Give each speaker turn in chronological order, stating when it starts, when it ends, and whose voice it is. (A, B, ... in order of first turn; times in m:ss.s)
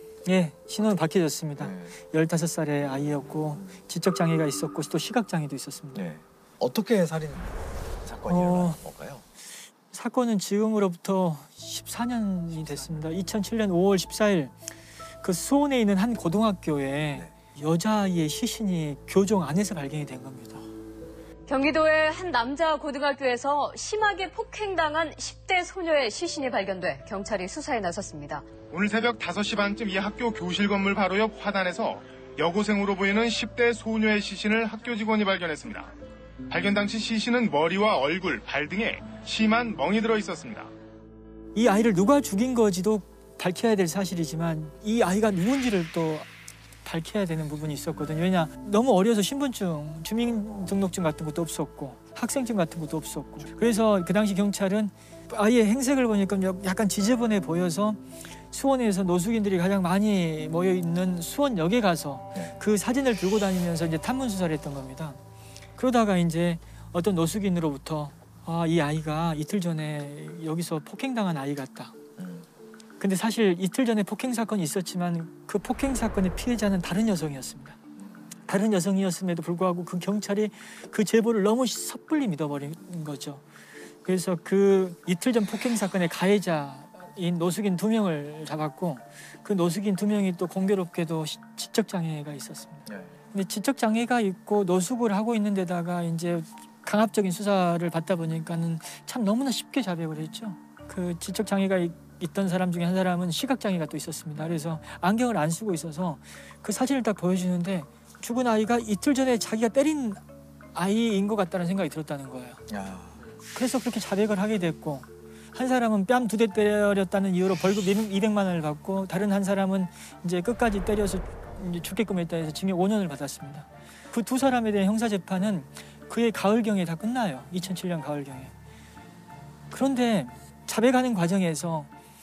0:00.2-0:06.0 A
0:01.6-0:01.9 B
0:05.9-0:07.5 B
0:08.0-0:09.2 B
0:08.3-0:08.8 A
0:09.9-0:14.5 A
0:15.2-0:20.6 A
0:21.5-0:28.5 C
0:28.7-0:35.9 D
0:36.5-0:40.7 D
0:41.5-0:46.3 A
0:46.8-1:05.2 A
1:05.8-1:11.9 A
1:12.2-1:12.5 B
1:13.0-1:17.8 A
1:18.5-1:23.4 A
1:24.0-1:50.2 A
1:50.7-1:52.6 A
1:52.7-1:53.2 B
1:53.5-2:08.5 A
2:09.7-2:11.9 A